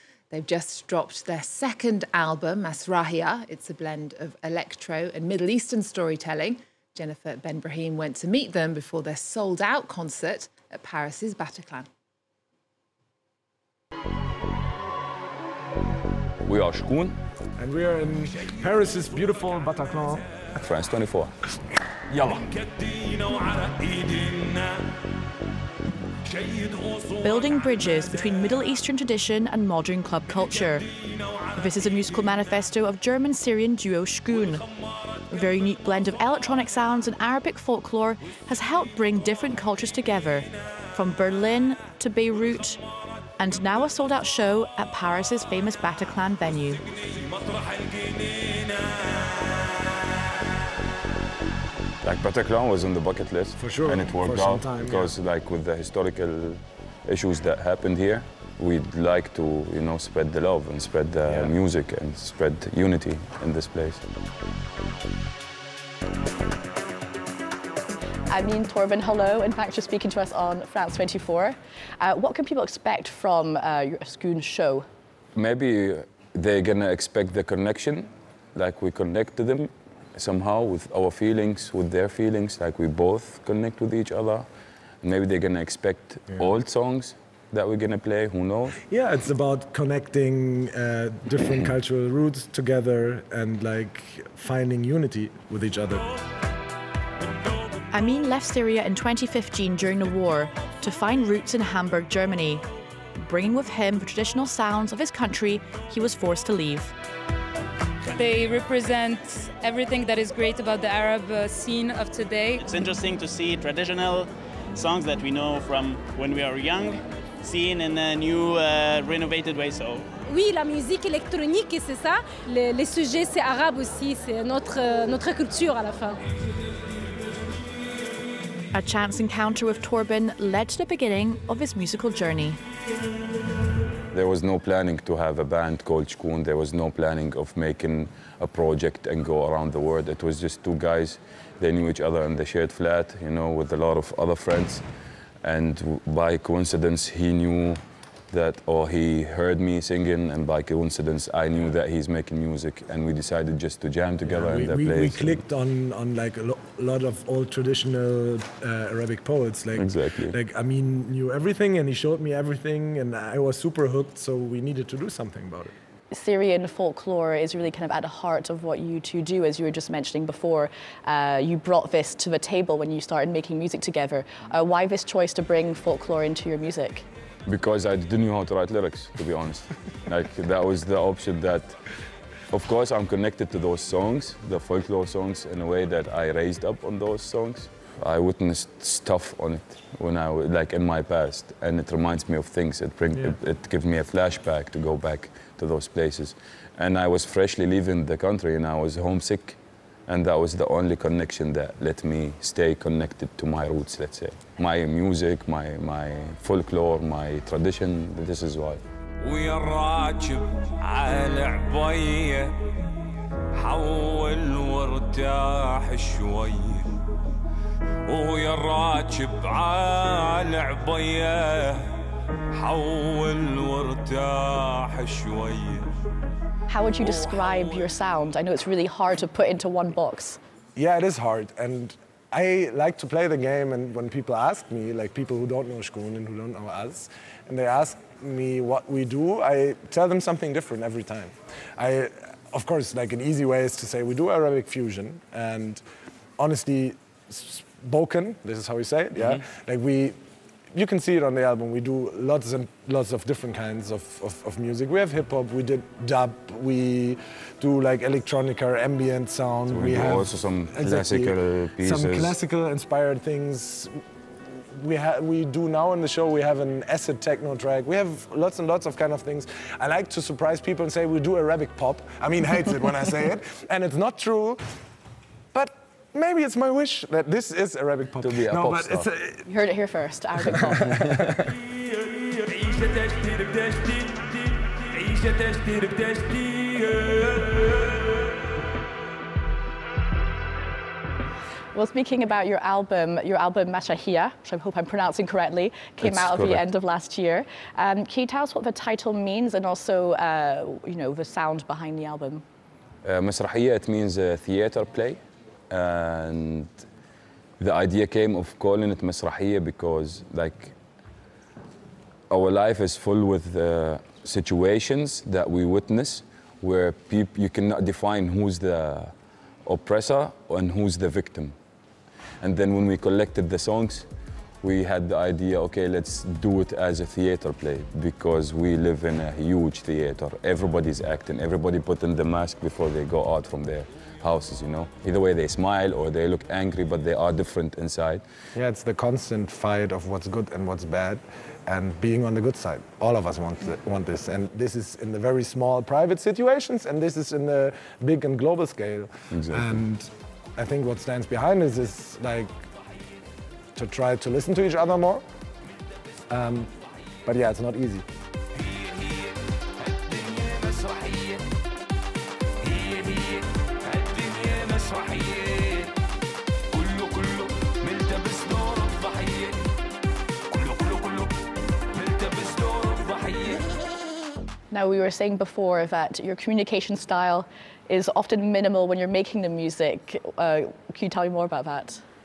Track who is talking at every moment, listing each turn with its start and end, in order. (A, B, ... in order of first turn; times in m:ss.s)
0:00.3-0:11.9 A
0:16.4-0:17.2 B
0:17.6-0:20.4 C
0:20.6-0:21.4 B
0:22.1-0:22.4 B
0:27.2-0:30.8 D
0:31.6-0:34.6 D
0:35.3-0:42.8 D
0:43.4-0:46.8 D
0:52.0-1:04.0 B
0:53.6-0:55.1 C
1:01.3-1:01.5 C
1:08.3-1:14.9 E
1:15.4-1:24.5 B
1:25.0-1:28.8 B
1:28.9-1:36.1 C
1:37.9-1:42.6 D
1:43.2-1:46.9 D
1:48.1-1:52.6 F
1:52.6-2:00.1 G
2:00.3-2:06.2 H
2:08.7-2:12.6 D
2:14.1-2:24.8 B
2:25.4-2:35.4 B
2:34.3-2:45.7 C
2:39.8-2:40.4 B
2:46.1-2:57.1 E
2:57.5-3:01.8 B
3:02.5-3:32.6 B
3:33.5-3:37.0 B
3:38.1-3:45.9 B
3:46.7-3:50.4 E
3:50.8-4:05.8 C
4:06.4-4:10.2 C
4:10.7-4:24.0 C
4:19.7-4:22.3 B
4:24.7-4:34.6 C
4:35.5-4:39.4 C
4:38.2-4:39.1 B
4:39.4-4:41.0 E
4:40.7-4:41.0 C
4:51.7-5:02.4 E
4:56.0-4:56.6 B
5:03.0-5:06.8 B
5:07.6-5:10.7 B
5:12.3-5:19.1 B
5:19.7-5:21.5 B
5:22.4-5:24.1 B
5:24.6-5:38.2 B
5:38.6-5:52.5 C
5:49.3-5:49.8 B
5:53.8-5:55.2 C
5:56.3-5:56.7 C
5:57.2-5:58.0 C
6:14.7-6:22.0 E